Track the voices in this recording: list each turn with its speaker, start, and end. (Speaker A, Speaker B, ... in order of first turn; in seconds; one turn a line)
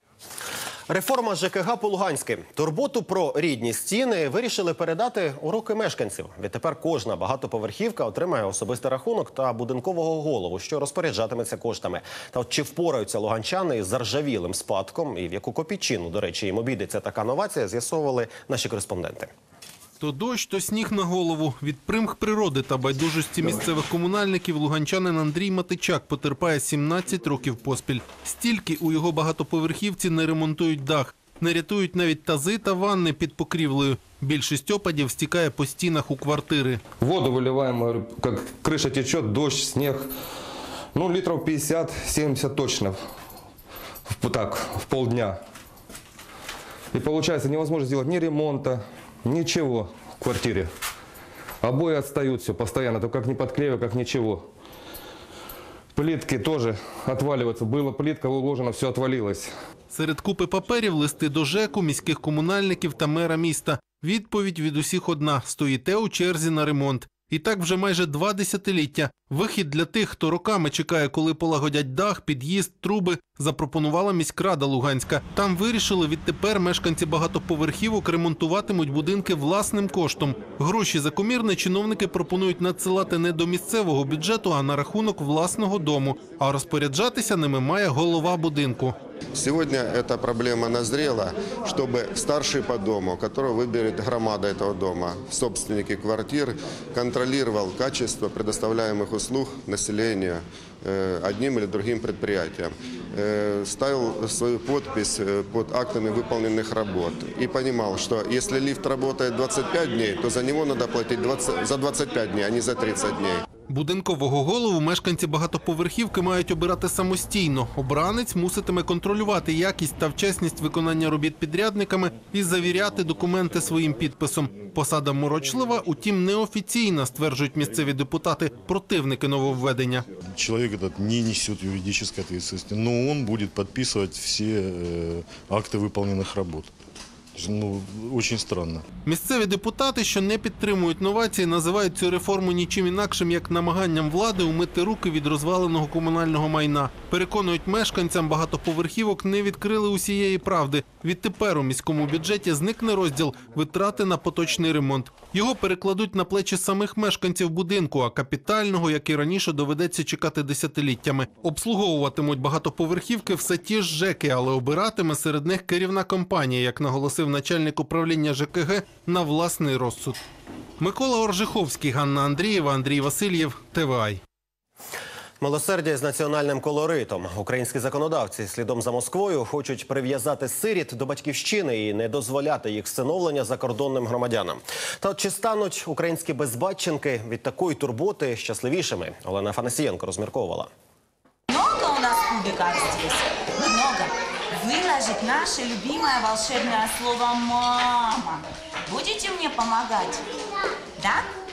Speaker A: 0.9-19.3
Speaker B: 20.0-36.8
Speaker C: 37.0-40.1
Speaker C: 40.9-43.0
Speaker C: 44.1-45.4
Speaker C: 46.9-50.7
Speaker C: 51.6-54.5
Speaker C: 55.9-59.5
Speaker B: 59.9-88.9
Speaker D: 89.3-113.4
Speaker B: 113.7-130.0
Speaker E: 130.2-136.7
Speaker E: 137.3-138.8
Speaker B: 139.1-170.2
Speaker B: 170.8-174.2
Speaker A: 175.4-190.7
Speaker F: 191.5-200.2
Speaker F: 201.0-201.3